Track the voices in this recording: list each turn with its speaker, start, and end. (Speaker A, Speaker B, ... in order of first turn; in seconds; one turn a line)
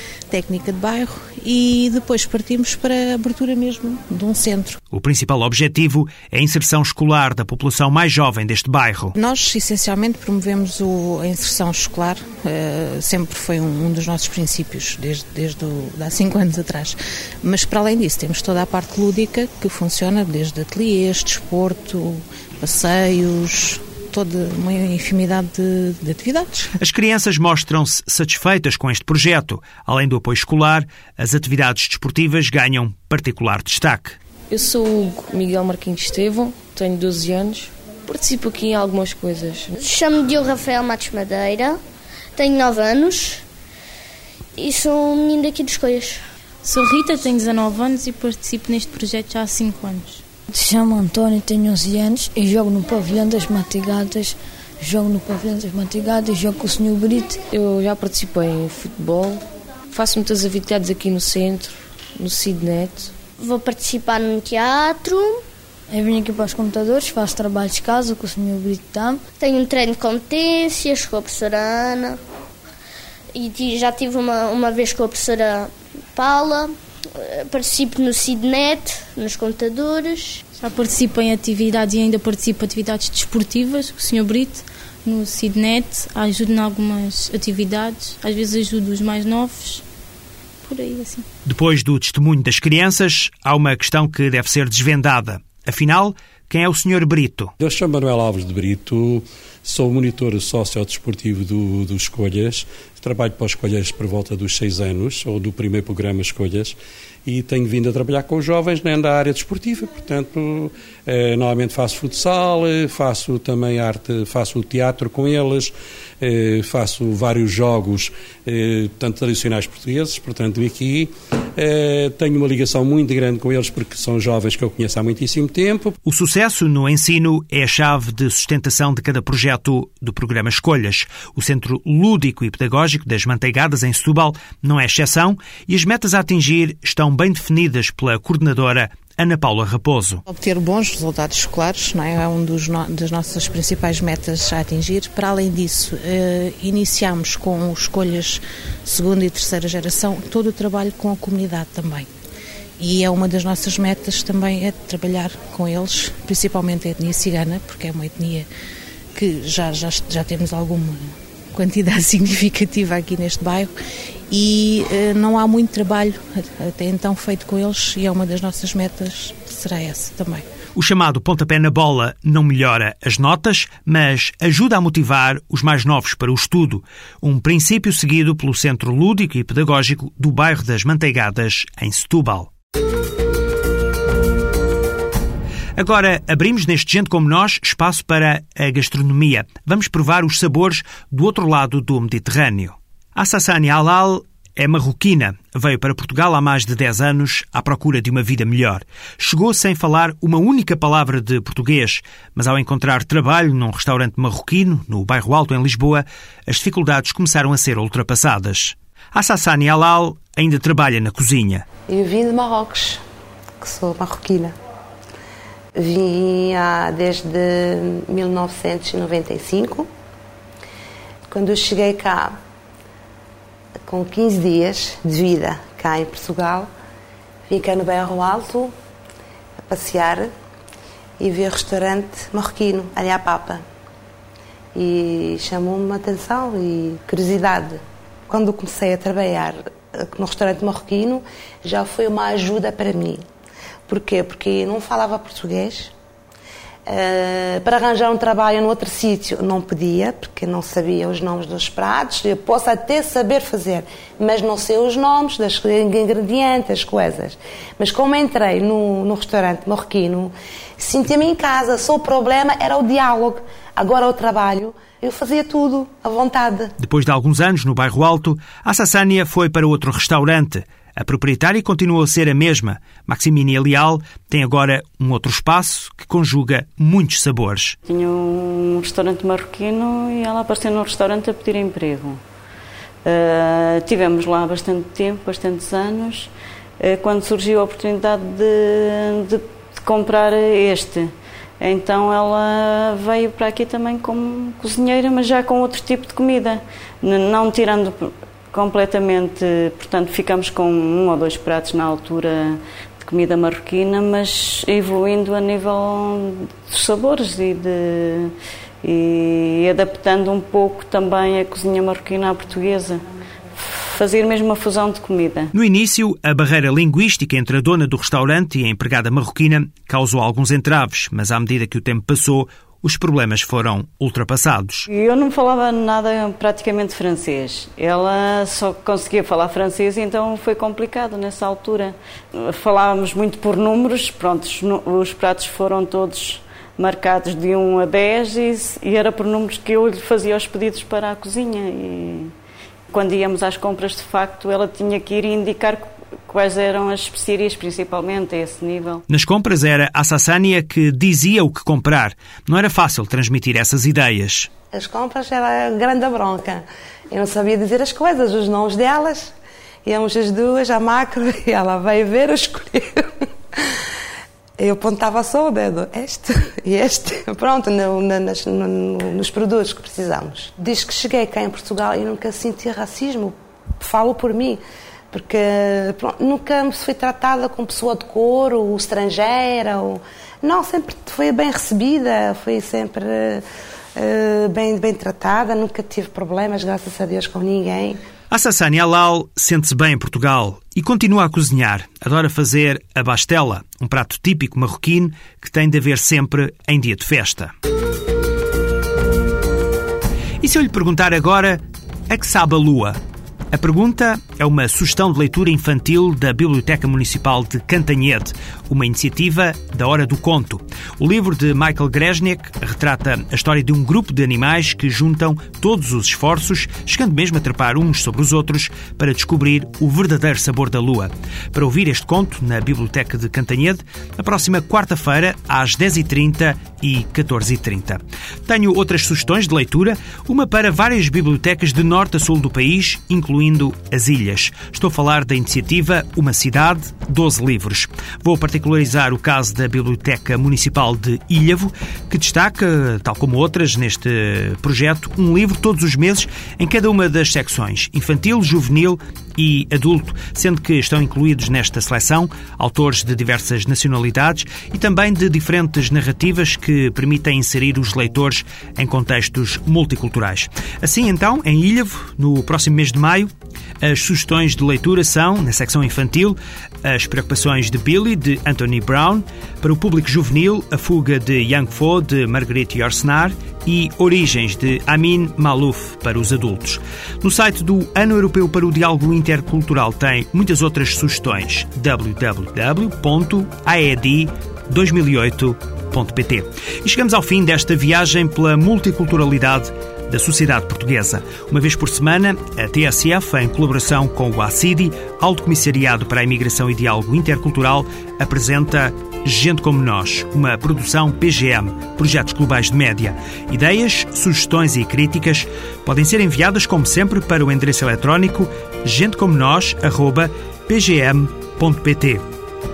Speaker A: 0.3-4.8
Speaker B: 4.9-9.2
Speaker A: 9.2-26.7
Speaker B: 26.8-34.2
Speaker C: 34.5-39.7
Speaker D: 39.8-41.8
Speaker D: 42.4-43.4
Speaker D: 44.6-46.2
Speaker E: 46.6-50.2
Speaker F: 50.5-57.4
Speaker C: 57.5-59.4
Speaker C: 59.9-63.1
Speaker D: 63.4-65.4
Speaker F: 65.9-69.3
Speaker D: 69.3-72.2
Speaker D: 73.3-80.4
Speaker E: 80.5-89.8
Speaker E: 90.6-91.3
Speaker B: 91.5-97.5
Speaker G: 97.6-126.0
Speaker B: 126.1-140.2
Speaker A: 140.3-152.1
Speaker A: 152.8-158.5
Speaker A: 159.1-163.7
Speaker A: 164.3-170.5
Speaker B: 170.8-182.5
Speaker B: 185.8-211.7
Speaker H: 211.9-213.0
Speaker H: 213.6-214.5
Speaker H: 215.8-219.9
Speaker H: 221.3-222.4
Speaker H: 223.9-226.7
Speaker H: 227.5-228.7
Speaker H: 229.7-230.3
Speaker H: 231.2-233.6
Speaker H: 234.8-243.2
Speaker H: 243.9-245.9
Speaker H: 246.9-266.7
Speaker B: 266.8-277.8
Speaker I: 277.9-282.2
Speaker I: 283.1-313.0
Speaker I: 313.6-315.5
Speaker B: 315.5-324.9
Speaker I: 324.9-342.3
Speaker I: 342.9-349.0
Speaker B: 349.1-354.5
Speaker H: 354.7-359.3
Speaker H: 359.9-363.7
Speaker H: 364.6-383.4
Speaker H: 384.0-388.0
Speaker B: 388.3-397.5
Speaker B: 400.4-403.0
Speaker B: 403.5-512.2